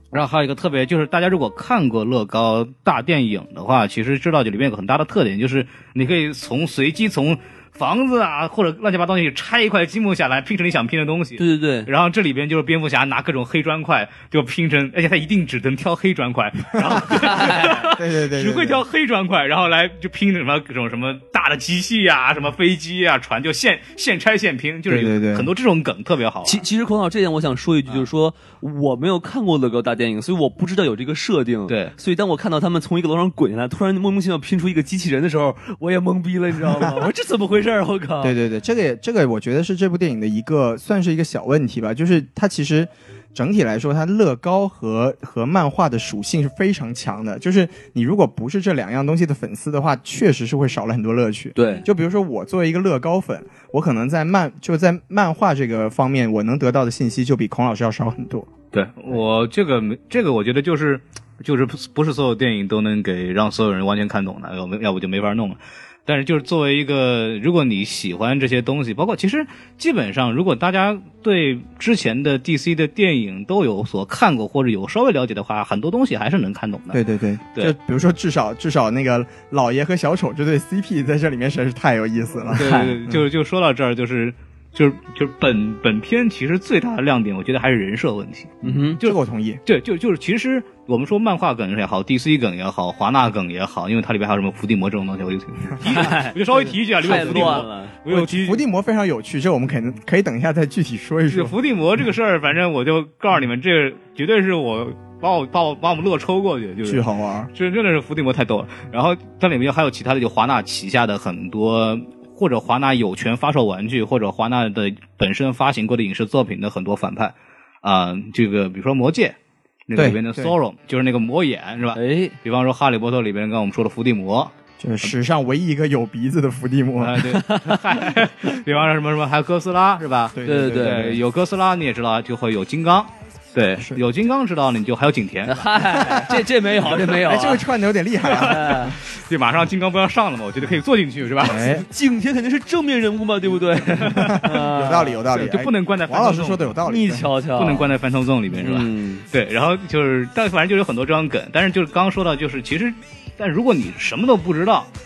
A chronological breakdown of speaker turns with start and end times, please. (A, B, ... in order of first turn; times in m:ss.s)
0:00.1-0:26.6 A
0:11.4-0:11.9 B
0:17.2-0:17.8 B
0:17.8-0:18.8 C
0:24.9-0:25.5 C
0:26.4-0:38.4 B
0:31.7-0:31.9 A
0:38.2-0:58.5 C
0:51.6-0:51.8 B
0:58.7-1:17.0 A
1:16.9-1:23.2 C
1:22.5-1:38.6 A
1:22.5-1:23.0 B
1:28.6-1:29.0 B
1:29.0-1:29.6 C
1:35.8-1:37.9 B
1:38.1-1:41.5 C
1:41.3-1:59.4 A
1:46.8-1:47.5 C
1:59.9-2:05.1 A
1:59.9-2:00.5 C
2:01.9-2:02.3 B
2:04.8-2:07.2 C
2:07.0-2:16.1 A
2:07.3-2:08.2 B
2:10.3-2:11.2 C
2:10.4-2:11.2 B
2:15.5-2:17.6 B
2:17.2-2:19.0 C
2:18.2-2:21.8 A
2:18.3-2:18.9 B
2:21.4-2:21.8 C
2:21.9-2:25.2 B
2:24.0-2:24.4 A
2:24.2-2:27.3 C
2:25.3-2:26.8 A
2:26.8-2:27.9 B
2:27.6-2:34.9 A
2:28.5-2:29.2 B